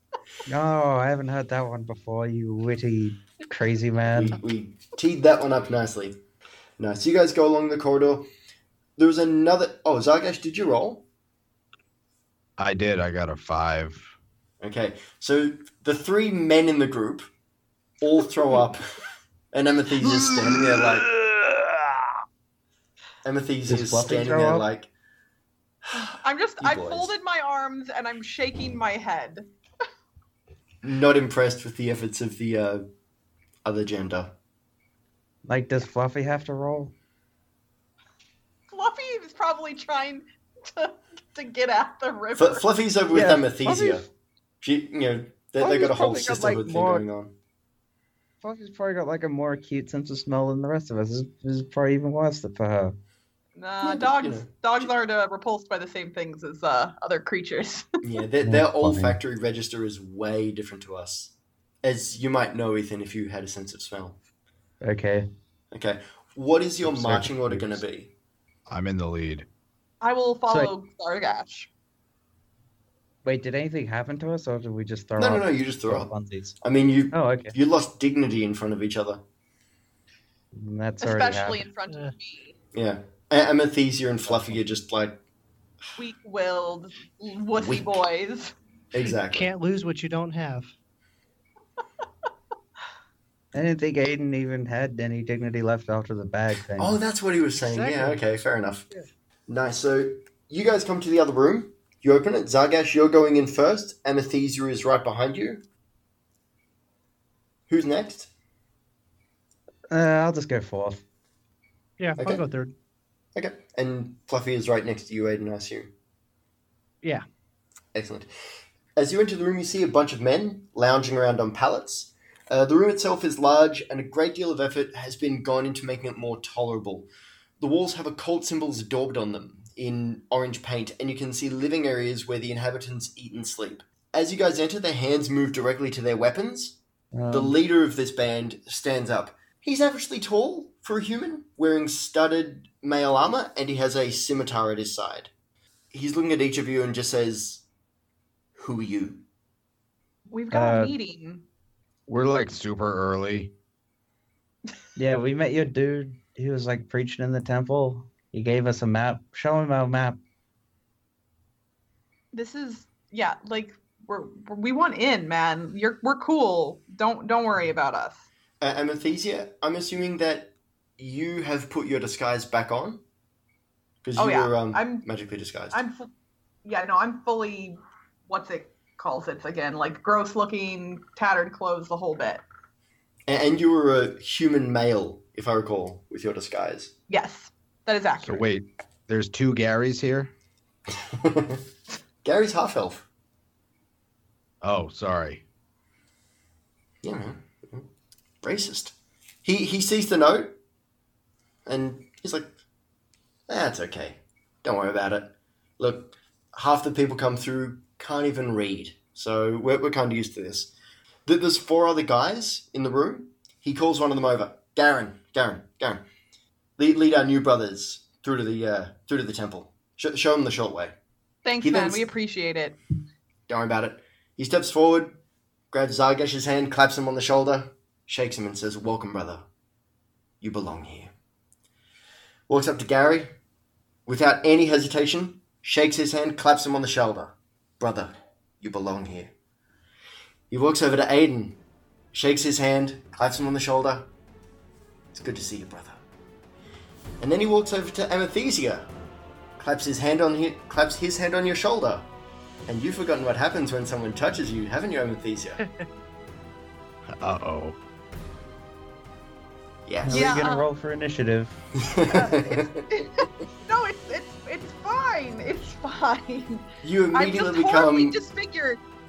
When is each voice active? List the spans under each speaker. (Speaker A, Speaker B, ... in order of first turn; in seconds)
Speaker A: 0.5-4.4, 23.7-24.7, 35.5-36.9, 43.1-44.1, 45.6-47.0, 48.4-52.9, 58.4-59.2, 64.8-65.3, 66.8-67.8, 73.2-76.6, 77.1-77.6, 80.5-81.7, 93.5-97.0, 109.9-111.0, 137.1-137.6, 150.5-150.9, 155.0-160.2, 260.0-261.6
Speaker B: 4.1-6.2, 6.8-8.3, 9.0-11.1, 14.6-17.3, 18.0-18.8, 19.5-21.1, 23.2-24.9, 26.6-27.1, 30.8-32.9, 33.6-34.3, 42.4-44.1, 44.6-47.3, 53.8-54.5, 58.0-64.2, 65.7-68.1, 75.2-79.2, 82.7-85.2, 87.5-87.9, 88.9-89.5, 96.8-98.9, 99.5-105.6, 107.7-108.3, 113.3-115.9, 117.9-118.3, 119.0-127.1, 127.6-136.8, 137.3-145.3, 145.9-147.6, 148.6-149.2, 168.6-173.0, 174.0-175.8, 183.3-186.9, 191.1-191.6, 192.2-193.1, 197.0-197.9, 198.4-200.6, 201.7-202.6, 203.5-210.7, 211.3-216.0, 216.8-220.9, 221.6-222.1, 223.5-225.2, 225.7-229.4, 230.4-231.1, 232.5-233.3, 234.1-239.3, 240.5-241.6, 242.1-244.1, 245.1-246.0, 247.2-248.9, 249.6-252.1, 252.7-255.6, 259.9-260.4, 261.8-262.9, 266.8-268.1
Speaker C: 12.6-14.1, 20.6-22.1, 68.7-69.5, 152.1-153.5, 188.2-190.3, 194.6-195.4, 257.2-257.8
Speaker D: 25.9-29.5, 38.7-42.6, 53.6-58.0, 70.0-71.7, 81.0-82.6, 86.0-88.5, 150.3-151.4, 162.3-168.3, 174.2-175.1, 175.7-176.1, 176.6-182.4, 187.1-188.4, 221.4-222.8, 260.1-260.7, 262.1-268.8
Speaker E: 89.3-90.7, 97.6-98.2, 112.0-112.7